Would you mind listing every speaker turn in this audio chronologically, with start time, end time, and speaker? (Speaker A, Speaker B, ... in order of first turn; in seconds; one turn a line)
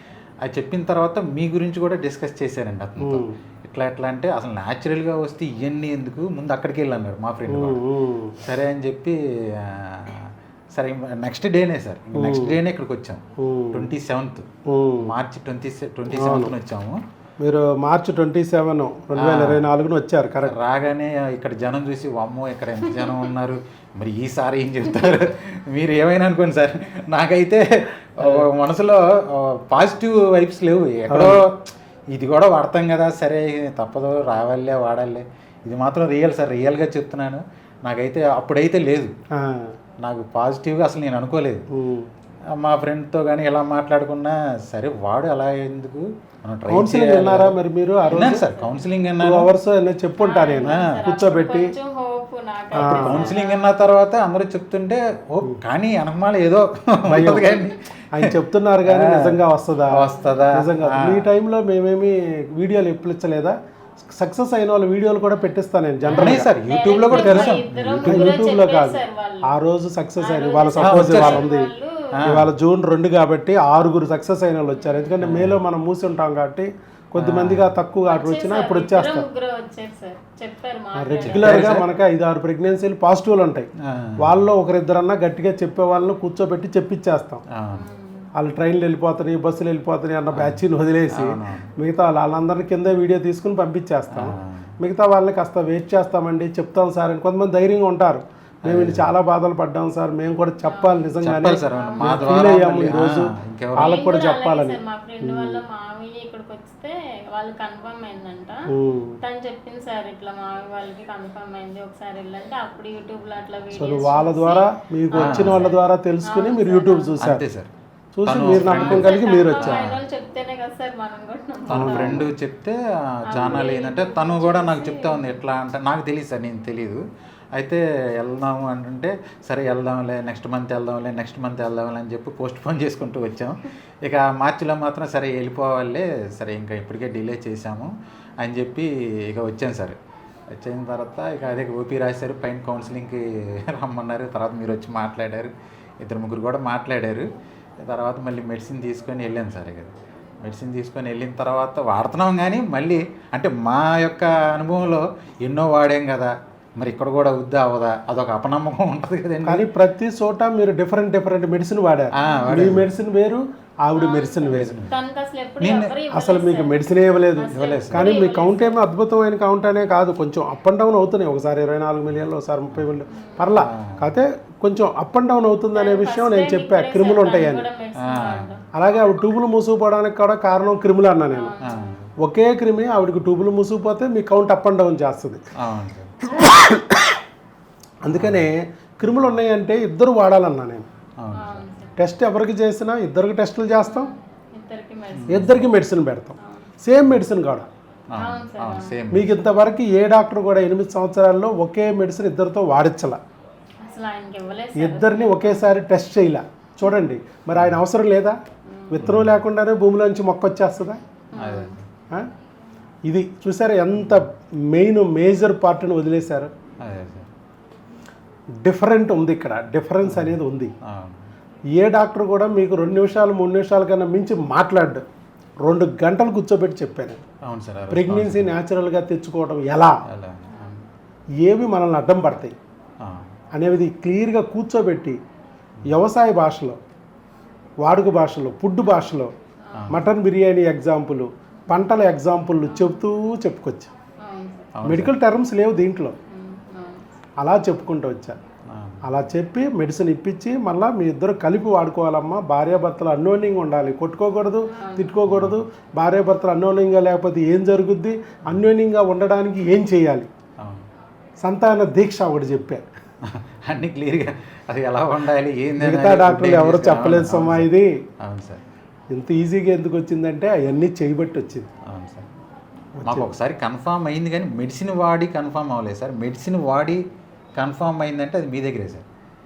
Speaker A: 0.4-7.8
Speaker B: 3.0-3.4
Speaker B: 7.5-8.3
Speaker A: 8.4-14.5
Speaker B: 12.1-12.6
Speaker B: 13.4-13.9
Speaker B: 14.7-15.1
Speaker A: 15.0-17.0
Speaker B: 16.1-16.5
Speaker B: 17.4-20.5
Speaker A: 19.2-19.7
Speaker A: 20.5-39.1
Speaker B: 31.1-31.4
Speaker B: 39.4-39.7
Speaker A: 40.0-41.6
Speaker B: 41.7-42.1
Speaker A: 42.5-47.6
Speaker B: 46.7-48.5
Speaker A: 48.1-49.5
Speaker C: 48.2-48.6
Speaker B: 49.2-51.7
Speaker C: 50.2-53.7
Speaker A: 50.6-51.0
Speaker A: 52.8-61.3
Speaker B: 52.8-53.3
Speaker B: 57.1-57.6
Speaker C: 57.2-57.7
Speaker B: 58.1-66.5
Speaker C: 59.9-60.5
Speaker C: 66.1-69.5
Speaker A: 66.1-68.4
Speaker B: 67.0-71.7
Speaker C: 70.2-72.2
Speaker A: 70.8-71.5
Speaker A: 72.1-72.5
Speaker B: 72.2-79.3
Speaker C: 74.8-75.2
Speaker A: 75.2-75.6
Speaker A: 77.2-77.7
Speaker C: 78.1-81.8
Speaker B: 81.0-83.7
Speaker A: 81.2-81.8
Speaker A: 83.8-84.4
Speaker B: 84.2-87.4
Speaker A: 87.5-87.9
Speaker C: 87.7-88.3
Speaker B: 88.3-105.6
Speaker A: 90.3-91.7
Speaker A: 94.1-94.7
Speaker A: 98.7-99.1
Speaker C: 100.6-101.1
Speaker A: 101.2-104.0
Speaker C: 101.6-102.5
Speaker C: 103.8-117.2
Speaker B: 108.7-109.2
Speaker B: 113.7-117.4
Speaker A: 115.2-115.7
Speaker A: 117.2-117.7
Speaker B: 118.1-119.9
Speaker A: 118.2-120.0
Speaker C: 118.6-122.3
Speaker A: 121.7-127.0
Speaker B: 121.7-122.3
Speaker C: 123.3-125.3
Speaker A: 127.5-140.0
Speaker A: 140.5-147.3
Speaker A: 147.8-159.7
Speaker B: 159.4-164.8
Speaker A: 162.1-162.9
Speaker C: 162.2-162.8
Speaker C: 163.9-168.8
Speaker A: 164.4-165.0
Speaker A: 165.6-166.0
Speaker B: 166.1-177.6
Speaker A: 167.5-168.2
Speaker A: 172.7-174.2
Speaker C: 173.1-173.5
Speaker C: 175.7-178.7
Speaker A: 178.0-178.5
Speaker B: 178.7-181.5
Speaker C: 181.3-182.0
Speaker A: 181.6-182.1
Speaker B: 182.2-185.4
Speaker A: 185.6-186.2
Speaker B: 186.3-187.1
Speaker B: 188.0-190.9
Speaker A: 188.1-188.5
Speaker A: 191.2-191.7
Speaker C: 191.3-191.9
Speaker B: 192.0-194.1
Speaker C: 193.8-195.6
Speaker A: 195.1-195.7
Speaker B: 195.3-197.7
Speaker C: 196.4-196.7
Speaker A: 198.1-199.3
Speaker C: 198.2-199.0
Speaker B: 199.1-203.2
Speaker C: 203.8-205.7
Speaker B: 204.8-208.4
Speaker A: 207.5-207.8
Speaker C: 208.7-209.0
Speaker B: 208.9-211.0
Speaker A: 209.0-209.4
Speaker C: 211.3-211.8
Speaker A: 211.3-211.8
Speaker B: 213.1-216.5
Speaker A: 213.9-214.2
Speaker A: 216.8-217.3
Speaker B: 218.6-220.7
Speaker A: 220.0-221.2
Speaker B: 221.8-225.0
Speaker B: 225.6-227.2
Speaker A: 227.4-228.6
Speaker B: 227.9-230.0
Speaker A: 230.1-230.8
Speaker C: 230.5-230.8
Speaker B: 231.4-232.5
Speaker A: 233.0-233.3
Speaker B: 233.5-235.2
Speaker B: 235.8-236.8
Speaker B: 237.8-239.3
Speaker C: 239.6-239.9
Speaker A: 239.7-240.0
Speaker B: 239.9-243.9
Speaker C: 242.7-243.1
Speaker C: 244.2-244.7
Speaker A: 244.7-245.1
Speaker B: 244.8-246.2
Speaker C: 246.3-247.1
Speaker B: 247.4-248.4
Speaker A: 248.7-249.0
Speaker B: 249.0-260.3
Speaker C: 254.7-255.2
Speaker A: 255.3-255.6
Speaker A: 260.6-260.9
Speaker B: 261.4-262.8
Speaker A: 263.2-268.6
Speaker B: 265.8-268.0
Speaker B: 269.1-271.7
Speaker A: 271.8-272.3
Speaker B: 273.0-273.3
Speaker A: 273.0-277.0
Speaker A: 277.6-279.0